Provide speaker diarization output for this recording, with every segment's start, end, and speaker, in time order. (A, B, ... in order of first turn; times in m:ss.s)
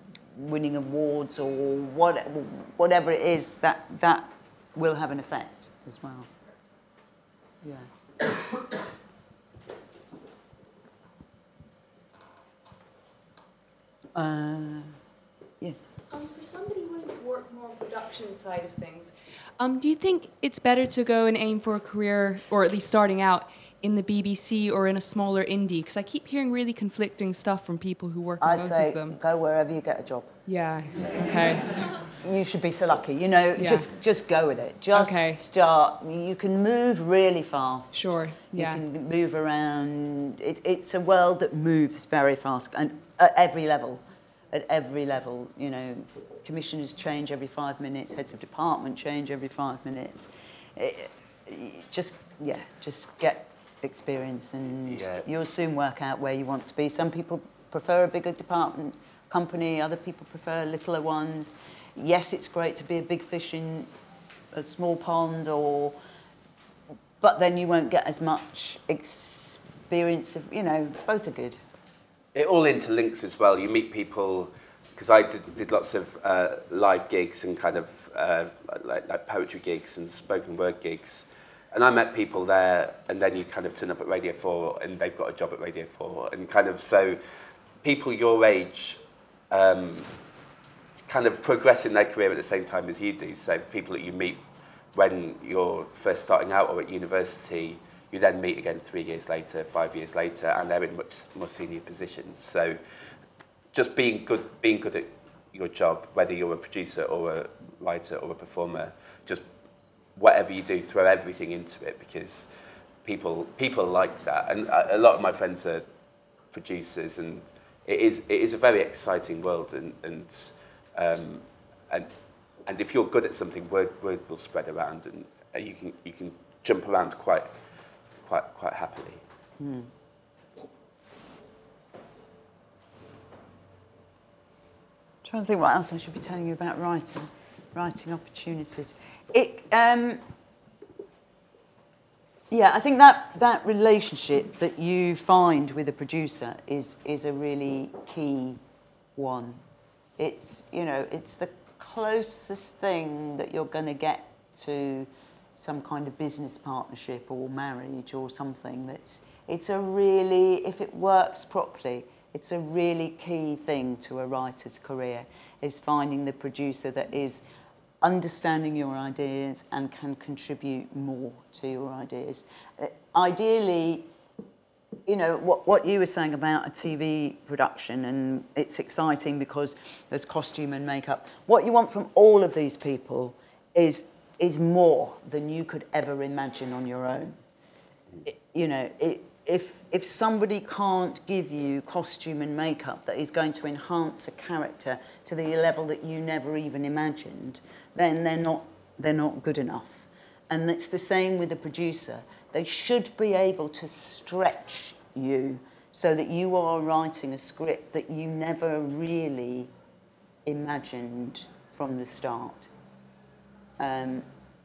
0:00.3-0:06.3 A
0:07.6-0:07.9 A
0:14.1-0:14.9 A
0:15.6-0:15.9 A
0:16.1-0:29.2 B
0:28.4-0:30.4 A
0:30.4-0:31.8 B
0:32.2-1:03.9 A
0:33.5-0:33.9 B
0:34.9-0:35.4 B
0:37.9-0:38.8 B
0:54.8-0:55.2 C
1:04.5-1:06.0 A
1:07.2-1:11.6 A
1:12.3-1:27.2 C
1:27.8-1:30.1 C
1:31.0-1:34.4 C
1:34.9-1:42.8 C
1:43.7-1:49.4 C
1:50.1-1:52.5 C
1:53.0-1:55.8 C
1:56.5-2:02.1 C
2:02.6-2:07.5 C
2:08.2-2:09.2 C
2:09.6-2:09.9 A
2:15.2-2:20.2 A
2:22.5-2:28.6 A
2:29.2-2:29.6 A
2:30.2-2:47.4 A
2:48.0-2:54.1 A
2:55.1-3:07.4 A
3:08.2-3:29.7 A
3:30.4-3:32.7 A
3:33.8-3:34.2 A